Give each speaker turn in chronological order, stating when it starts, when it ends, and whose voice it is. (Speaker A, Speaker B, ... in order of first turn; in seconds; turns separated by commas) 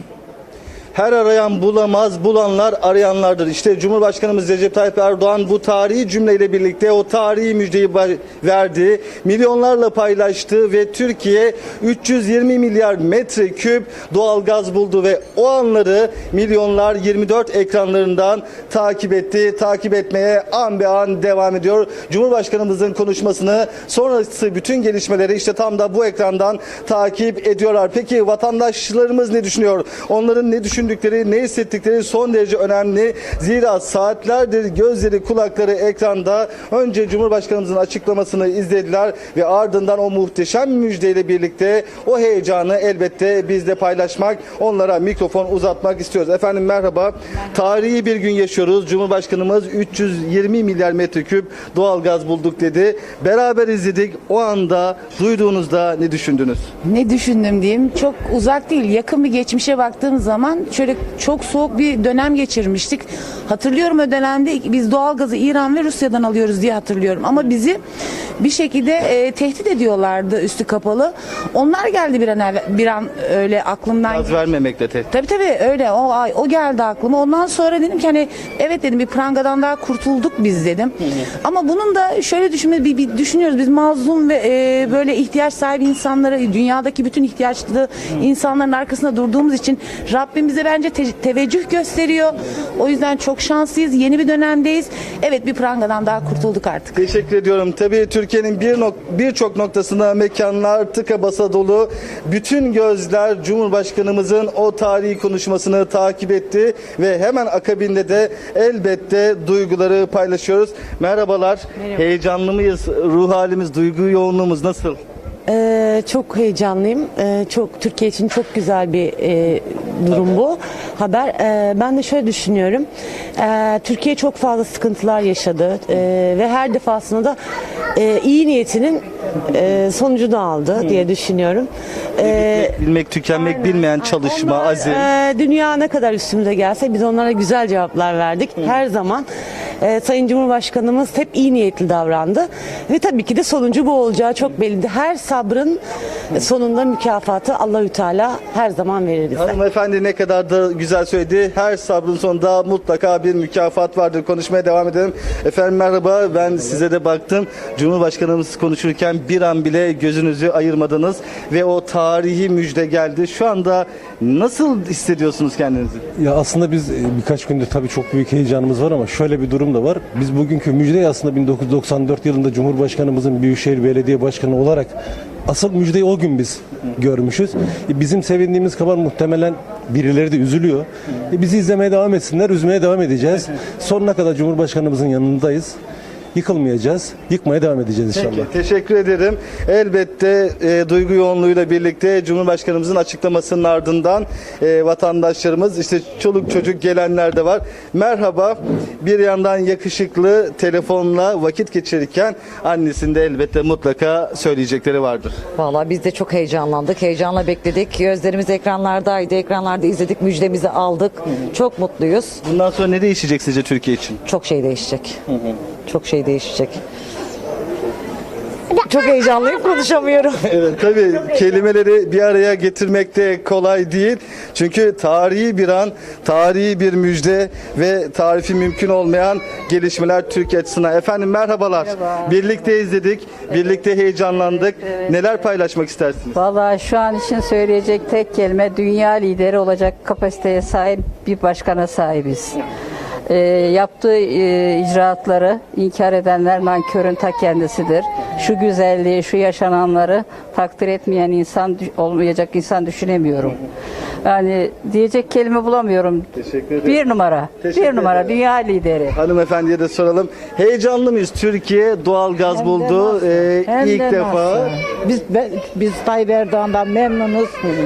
Speaker A: 0.9-56.7, Speaker B: 56.9-67.8, Speaker B: 68.4-74.4, Speaker A: 74.1-75.1, Speaker B: 75.1-97.0, Speaker A: 97.0-115.0, Speaker C: 115.5-127.3, Speaker C: 127.9-132.8, Speaker A: 132.2-135.0, Speaker C: 134.4-139.3, Speaker C: 139.8-145.8, Speaker C: 146.3-149.5, Speaker A: 149.3-166.0, Speaker D: 166.2-174.9, Speaker D: 175.5-185.8, Speaker D: 186.3-188.5, Speaker A: 188.1-205.4, Speaker E: 205.6-212.4, Speaker A: 212.4-214.2, Speaker E: 214.2-215.2, Speaker E: 215.8-216.8, Speaker E: 218.7-220.4, Speaker A: 220.5-236.4, Speaker F: 236.3-242.6, Speaker F: 243.3-253.6, Speaker F: 254.2-256.2, Speaker A: 256.4-257.0, Speaker F: 256.8-259.1, Speaker A: 257.6-258.3, Speaker A: 259.1-264.8, Speaker G: 262.6-262.9, Speaker G: 263.9-264.6, Speaker G: 265.3-267.5